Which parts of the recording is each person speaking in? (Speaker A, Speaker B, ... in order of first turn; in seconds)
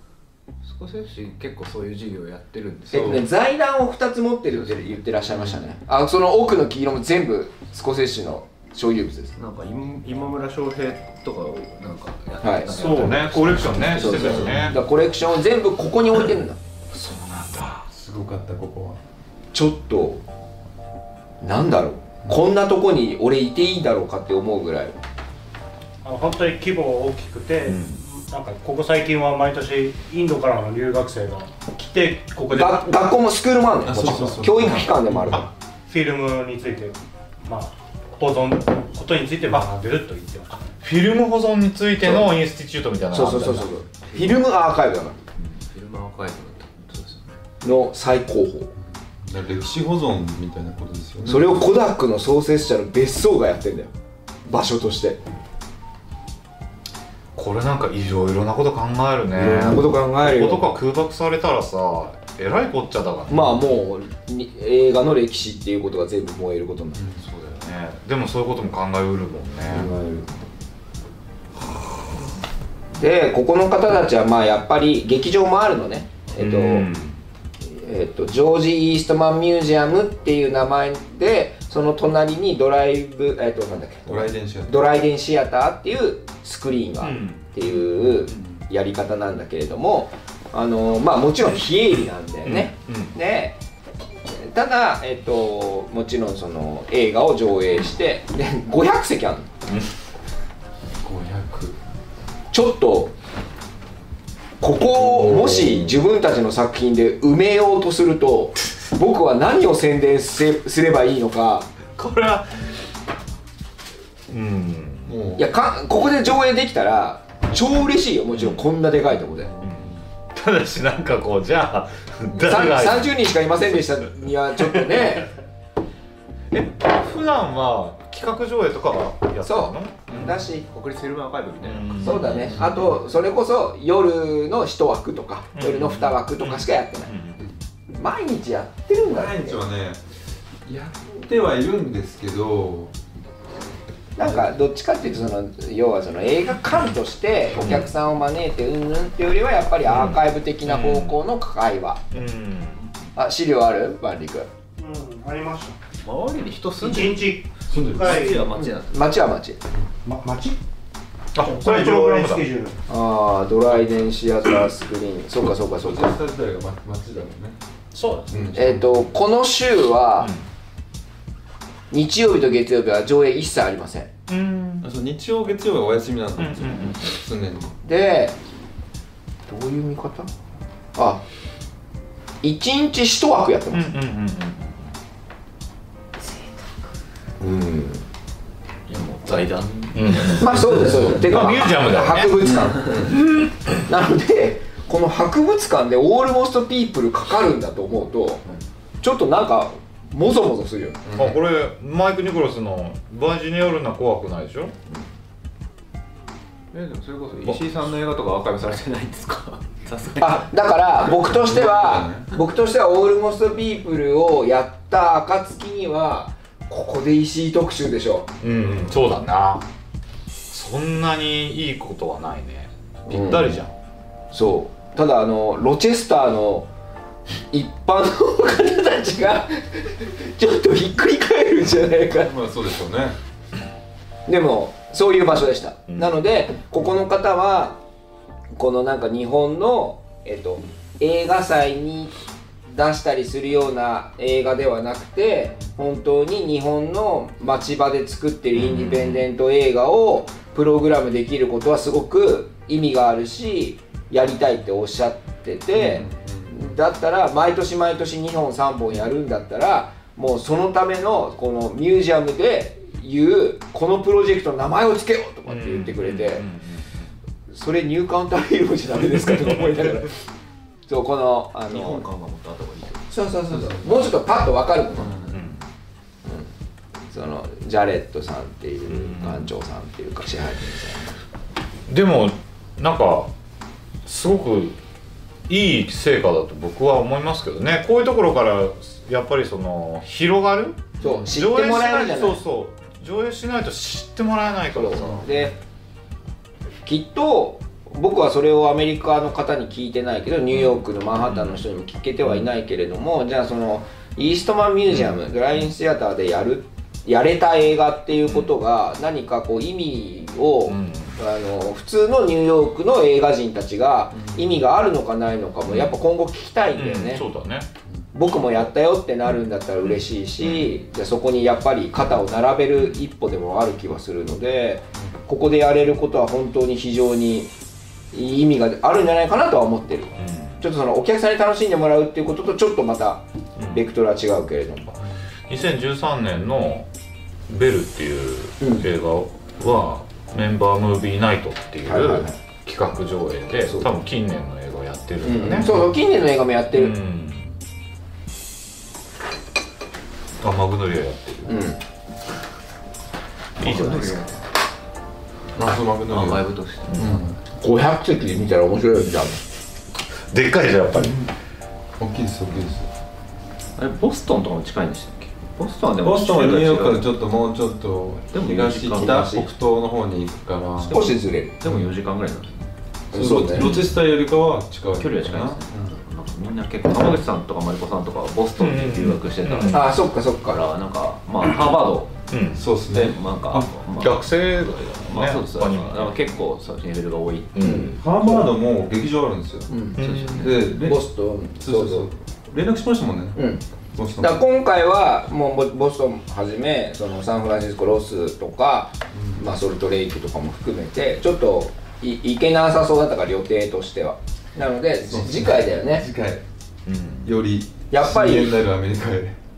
Speaker A: 0.6-3.2, 4.6-5.0, 9.4-14.7, 44.1-44.4, 45.4-47.4, 130.7-132.5, 156.0-159.2, 188.9-191.2, 206.7-210.5, 271.7-273.1, 353.6-354.4, 356.1-357.3, 363.8-367.1, 368.3-369.5, 370.8-372.7, 375.0-382.2, 382.9-387.9, 390.0-390.7
Speaker B: 2.9-3.2, 14.2-14.8, 17.9-19.0, 33.9-35.5, 48.8-51.7, 67.0-67.2, 84.1-84.9, 87.9-88.5, 101.0-101.8, 115.0-115.5, 119.6-119.9, 132.5-133.0, 139.0-140.1, 140.7-142.9, 157.7-158.4, 165.8-167.6, 168.3-169.1, 174.8-177.7, 192.8-193.1, 201.1-201.4, 211.1-212.3, 232.1-233.2, 255.7-256.7, 273.5-274.1, 274.9-275.3, 314.2-314.5, 355.6-357.4, 362.0-362.9, 366.0-371.0, 371.6-371.9, 373.1-376.0, 382.6-383.7, 388.0-389.7, 390.4-391.0, 391.6-393.4, 393.9-394.4, 399.1-399.4, 405.1-406.4, 407.2-409.4
Speaker C: 2.9-9.4, 12.4-13.1, 13.9-16.6, 19.5-20.2, 21.4-25.0, 32.5-35.5, 43.1-45.2, 47.6-48.7, 51.2-53.9, 54.5-55.2, 59.3-60.7, 63.3-67.0, 69.7-70.3, 72.9-76.9, 77.6-93.6, 94.3-99.5, 102.5-103.1, 104.6-111.7, 115.4-119.5, 122.3-125.3, 129.4-130.7, 132.0-137.1, 137.9-139.6, 144.2-152.0, 153.2-154.5, 158.6-159.6, 162.9-166.1, 168.5-170.3, 171.9-174.1, 177.8-178.4, 179.5-180.3, 181.0-181.2, 182.4-183.9, 187.4-188.0, 190.3-198.5, 199.0-201.0, 210.2-218.3, 223.1-223.6, 224.3-226.7, 227.5-232.3, 234.3-237.8, 238.6-242.2, 242.7-266.5, 267.5-270.1, 270.9-272.0, 273.1-275.2, 276.2-276.5, 277.1-281.2, 291.0-292.4, 294.7-295.6, 296.9-317.2, 318.1-327.5, 328.1-335.0, 338.6-338.9, 341.9-342.4, 343.7-343.9, 345.2-347.0, 351.5-351.8, 357.6-359.4, 370.9-371.5, 373.1-373.7, 379.7-380.6, 387.6-388.4, 389.7-390.0, 390.8-392.1, 393.4-393.6, 394.2-406.1, 407.9-408.6
Speaker D: 12.7-14.8, 16.9-17.9, 27.7-28.0, 40.8-43.7, 57.4-63.6, 67.2-69.9, 76.4-77.2, 87.0-87.5, 92.5-93.1, 105.0-105.9, 112.0-112.7, 114.3-115.1, 118.3-118.6, 119.6-123.1, 126.5-130.4, 131.6-132.6, 135.6-137.4, 147.6-147.9, 149.8-151.2, 152.1-152.8, 161.3-162.5, 170.2-170.4, 174.3-174.9, 176.4-177.0, 183.7-184.9, 189.9-193.5, 201.2-204.7, 218.4-219.7, 220.5-223.7, 248.5-249.3, 265.5-267.1, 275.3-275.6, 278.9-279.5, 281.9-283.3, 284.1-284.8, 285.5-295.5, 300.5-301.6, 304.9-305.2, 308.3-308.5, 310.7-311.2, 315.7-316.0, 316.8-317.7, 319.9-320.8, 330.2-330.6, 333.6-333.8, 335.5-336.9, 337.5-345.8, 346.7-347.5, 350.4-351.6, 353.6-354.2, 356.9-357.2, 360.3-361.3, 373.6-373.9, 378.6-379.9, 382.3-382.7, 383.6-386.3, 387.6-388.0, 390.0-390.6, 406.9-407.4
Speaker E: 26.0-32.8, 35.9-40.6, 154.8-155.8, 156.8-158.5, 160.1-160.6, 161.4-162.8, 167.9-168.5